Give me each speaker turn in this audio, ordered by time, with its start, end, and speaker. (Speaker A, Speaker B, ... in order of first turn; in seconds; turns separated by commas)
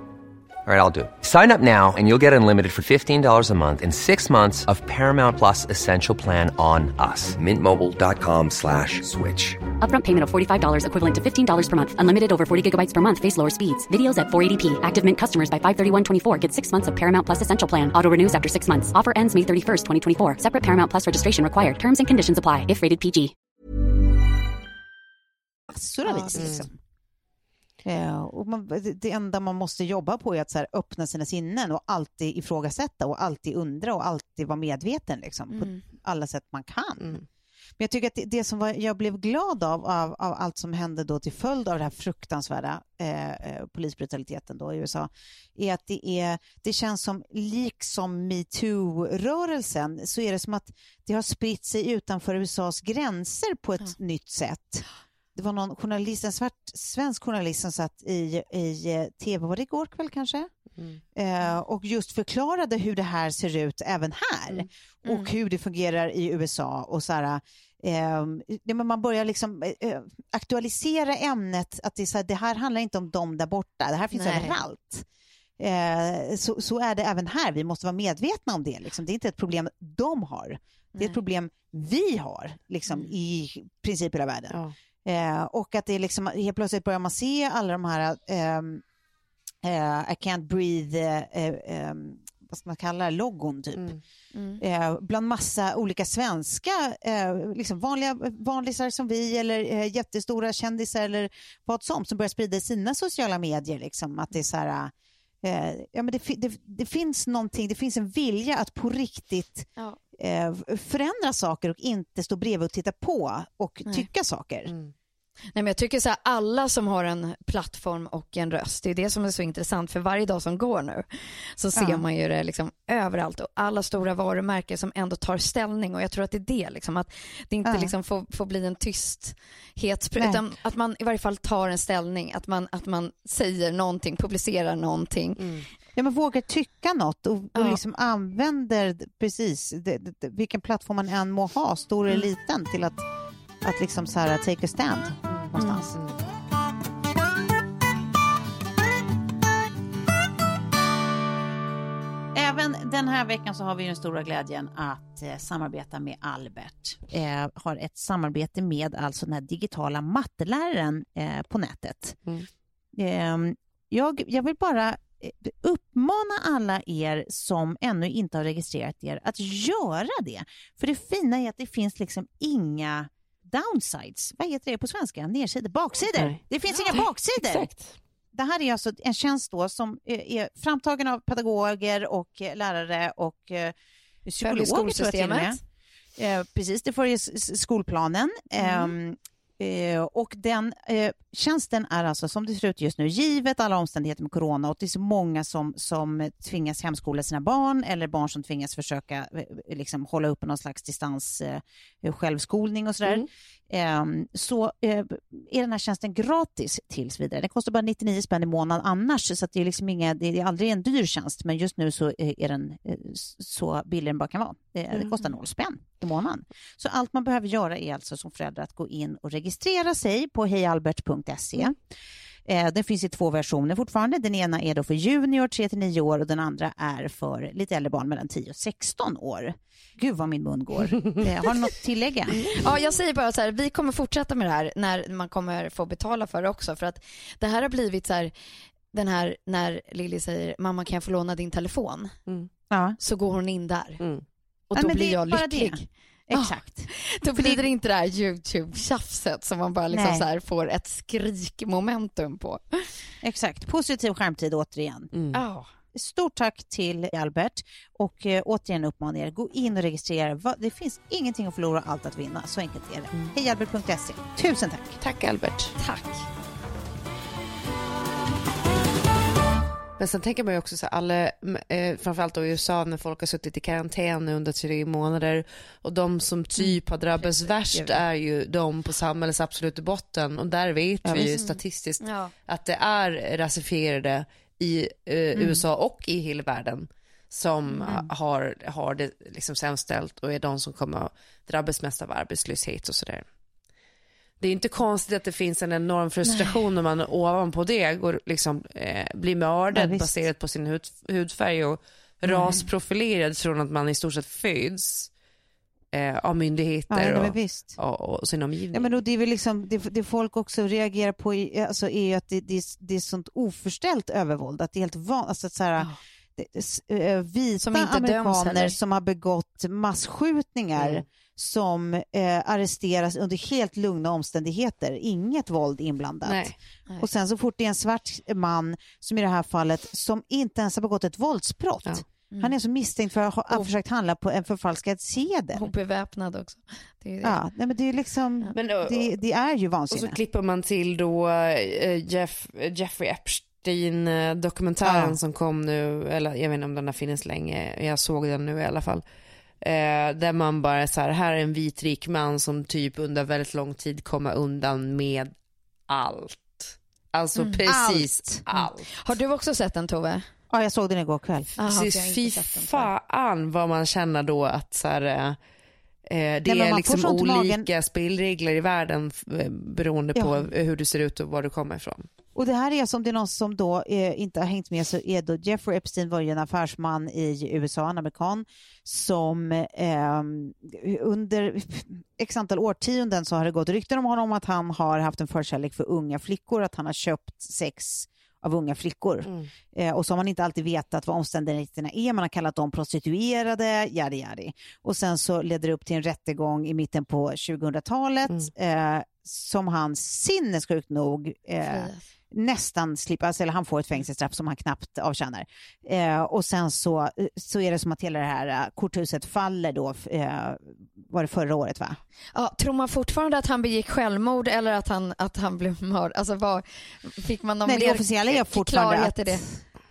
Speaker A: 0.7-9.6, Speaker B: 9.7-23.3, Speaker C: 25.7-26.8, Speaker D: 26.1-26.5, Speaker E: 26.4-26.6, Speaker C: 27.8-37.2, Speaker D: 35.5-35.8, Speaker C: 37.8-60.5, Speaker C: 61.1-75.0, Speaker D: 74.1-74.6, Speaker C: 75.6-88.8, Speaker C: 89.6-93.9, Speaker E: 93.8-94.0, Speaker D: 94.3-94.6, Speaker C: 94.6-114.7, Speaker E: 114.7-114.9, Speaker D: 115.5-135.5, Speaker C: 121.7-122.0, Speaker C: 127.6-127.9, Speaker C: 130.2-130.4, Speaker E: 135.4-135.7, Speaker C: 135.9-143.0, Speaker D: 137.5-137.8, Speaker C: 143.6-146.1, Speaker E: 145.3-146.1, Speaker C: 152.3-162.2, Speaker C: 162.9-177.7, Speaker E: 176.1-177.9, Speaker C: 178.3-185.6, Speaker D: 184.4-185.6, Speaker C: 186.2-221.8, Speaker D: 188.6-188.9, Speaker C: 222.4-232.4, Speaker E: 232.4-232.8, Speaker D: 232.6-238.3, Speaker D: 238.9-242.2, Speaker C: 242.7-243.0, Speaker D: 243.0-244.0, Speaker D: 244.7-245.9, Speaker C: 244.7-247.6, Speaker D: 246.9-252.9, Speaker C: 249.9-250.3, Speaker C: 253.2-255.1, Speaker E: 255.1-255.4, Speaker D: 255.3-255.7, Speaker C: 255.9-265.0, Speaker E: 265.0-265.8, Speaker D: 265.8-266.2, Speaker E: 270.0-293.2, Speaker C: 277.7-278.0, Speaker C: 281.0-281.4, Speaker D: 281.3-282.3, Speaker C: 285.4-285.6, Speaker E: 294.4-305.1, Speaker C: 299.7-300.1, Speaker C: 302.2-302.6, Speaker E: 305.9-309.0, Speaker C: 306.9-307.8, Speaker C: 308.7-335.7, Speaker D: 317.6-318.8, Speaker E: 320.8-321.0, Speaker E: 326.2-326.5, Speaker D: 335.5-337.4, Speaker C: 337.2-340.2, Speaker E: 338.5-339.1, Speaker E: 339.9-349.0, Speaker C: 344.8-345.2, Speaker E: 349.6-355.3, Speaker E: 355.9-358.9, Speaker D: 357.4-357.6, Speaker C: 357.6-358.4, Speaker D: 359.0-360.3, Speaker C: 360.5-361.5, Speaker D: 361.6-362.9, Speaker E: 361.6-365.4, Speaker E: 366.1-372.1, Speaker C: 366.4-367.7, Speaker C: 370.1-370.5, Speaker C: 372.3-412.0, Speaker E: 389.2-389.5, Speaker D: 401.6-402.0, Speaker D: 412.3-419.4, Speaker C: 417.6-419.6